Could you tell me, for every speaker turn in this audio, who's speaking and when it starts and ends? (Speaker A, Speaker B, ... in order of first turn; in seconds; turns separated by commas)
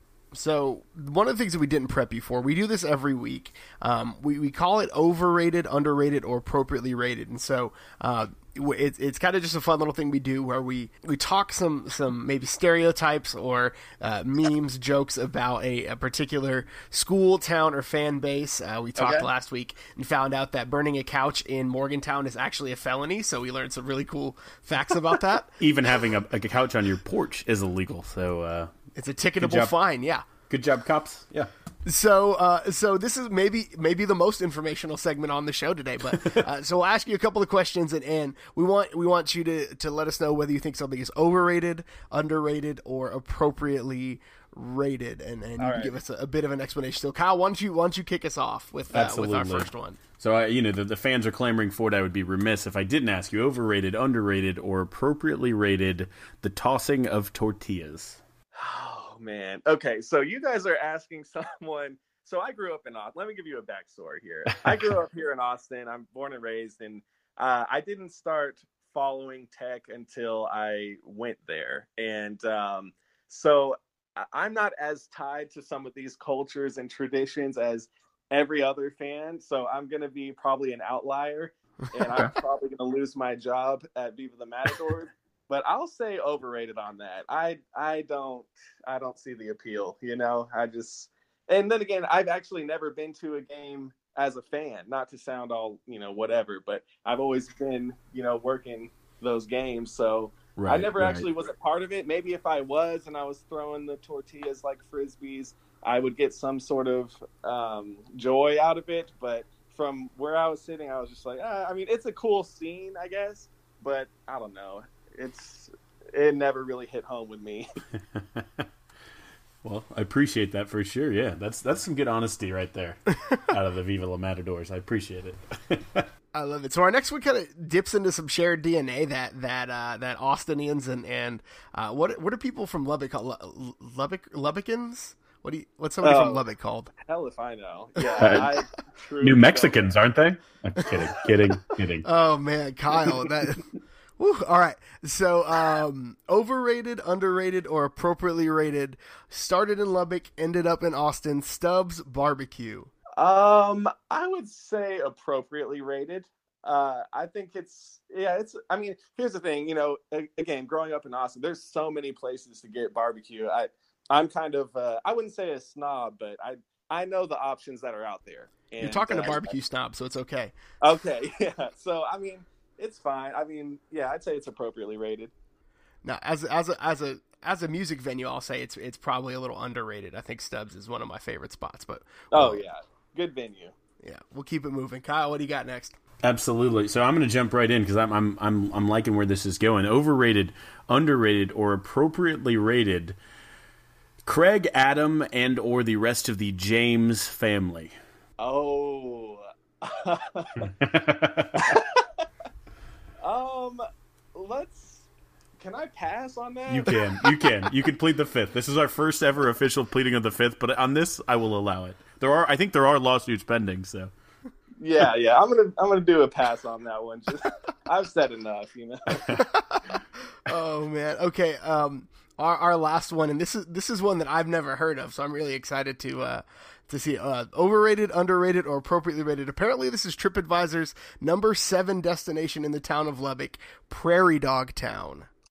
Speaker A: 0.3-25.6, Speaker B: 19.0-19.3, Speaker C: 25.6-28.7, Speaker A: 28.9-30.2, Speaker C: 29.4-29.7, Speaker C: 30.5-31.5, Speaker A: 31.9-50.0, Speaker B: 45.6-46.0, Speaker C: 48.9-58.2, Speaker B: 58.5-117.7, Speaker C: 64.7-64.9, Speaker A: 82.0-82.3, Speaker C: 100.6-101.3, Speaker C: 118.1-118.7, Speaker C: 119.6-126.1, Speaker A: 126.3-136.9, Speaker B: 136.0-136.4, Speaker B: 137.0-139.8, Speaker A: 138.0-138.5, Speaker C: 138.2-138.5, Speaker C: 139.2-142.1, Speaker A: 142.1-143.6, Speaker A: 144.2-152.9, Speaker B: 153.2-169.6, Speaker A: 168.8-170.5, Speaker B: 170.8-175.3, Speaker A: 176.1-182.6, Speaker B: 182.3-183.7, Speaker A: 184.0-186.0, Speaker C: 186.2-193.2, Speaker C: 194.2-197.9, Speaker B: 198.4-200.7, Speaker C: 200.7-201.8, Speaker B: 201.6-202.3, Speaker B: 203.2-203.8, Speaker B: 204.3-205.1, Speaker B: 205.6-207.0, Speaker C: 206.7-214.1, Speaker B: 214.8-219.3, Speaker A: 219.4-235.3